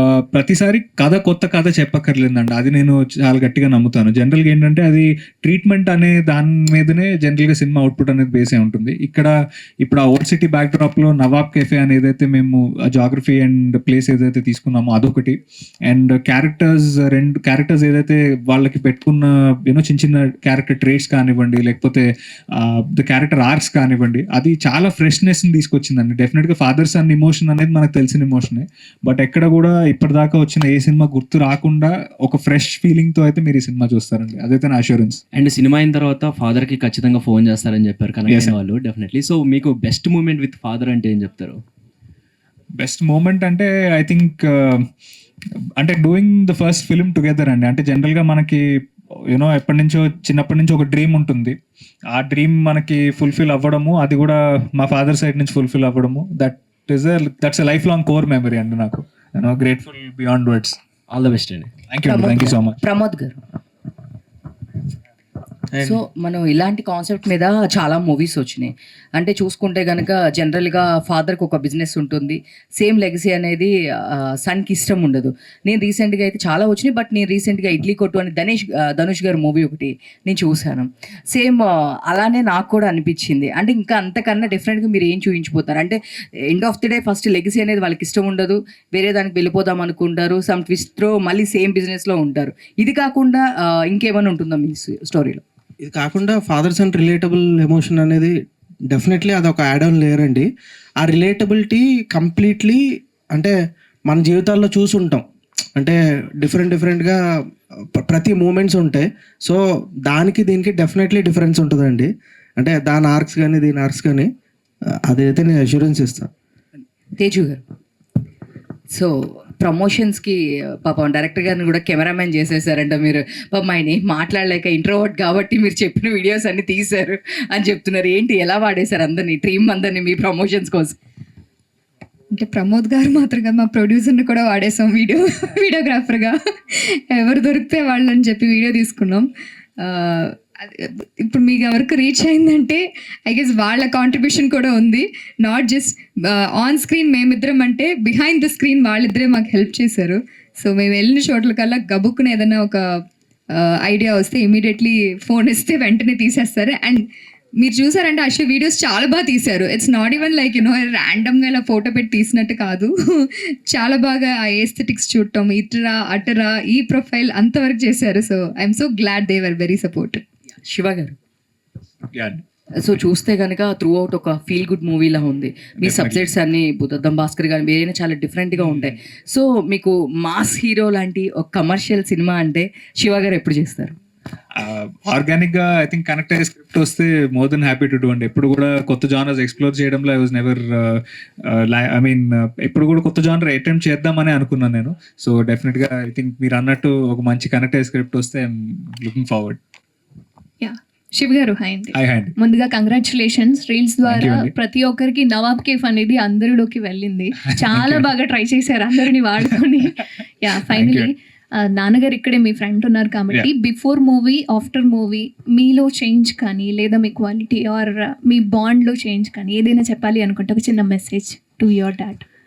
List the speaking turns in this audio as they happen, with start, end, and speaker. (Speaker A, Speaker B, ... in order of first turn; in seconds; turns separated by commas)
Speaker A: 0.2-9.3, Speaker A: 9.8-15.4, Speaker A: 15.9-22.1, Speaker A: 22.6-35.2, Speaker B: 35.3-41.6, Speaker A: 38.3-38.5, Speaker A: 42.8-44.8, Speaker A: 45.8-48.6, Speaker A: 49.3-51.5, Speaker A: 52.1-60.8, Speaker B: 61.1-61.7, Speaker A: 61.9-62.8, Speaker C: 62.0-63.4, Speaker C: 65.8-73.7, Speaker C: 74.4-86.0, Speaker C: 86.5-95.4, Speaker D: 95.8-98.3, Speaker D: 98.9-100.5, Speaker D: 101.0-102.8, Speaker D: 104.1-105.2, Speaker D: 105.8-107.2, Speaker D: 108.0-114.3, Speaker D: 115.1-116.3, Speaker C: 117.2-117.6, Speaker C: 118.9-130.9, Speaker E: 132.3-153.0, Speaker E: 153.5-157.1, Speaker E: 157.6-170.2, Speaker C: 170.6-171.1, Speaker A: 172.1-172.4, Speaker C: 172.8-183.9, Speaker A: 175.8-176.3, Speaker A: 178.5-178.9, Speaker A: 184.6-199.6, Speaker F: 200.6-222.2, Speaker A: 201.9-202.3, Speaker A: 204.1-204.5, Speaker A: 207.7-208.1, Speaker A: 210.7-211.1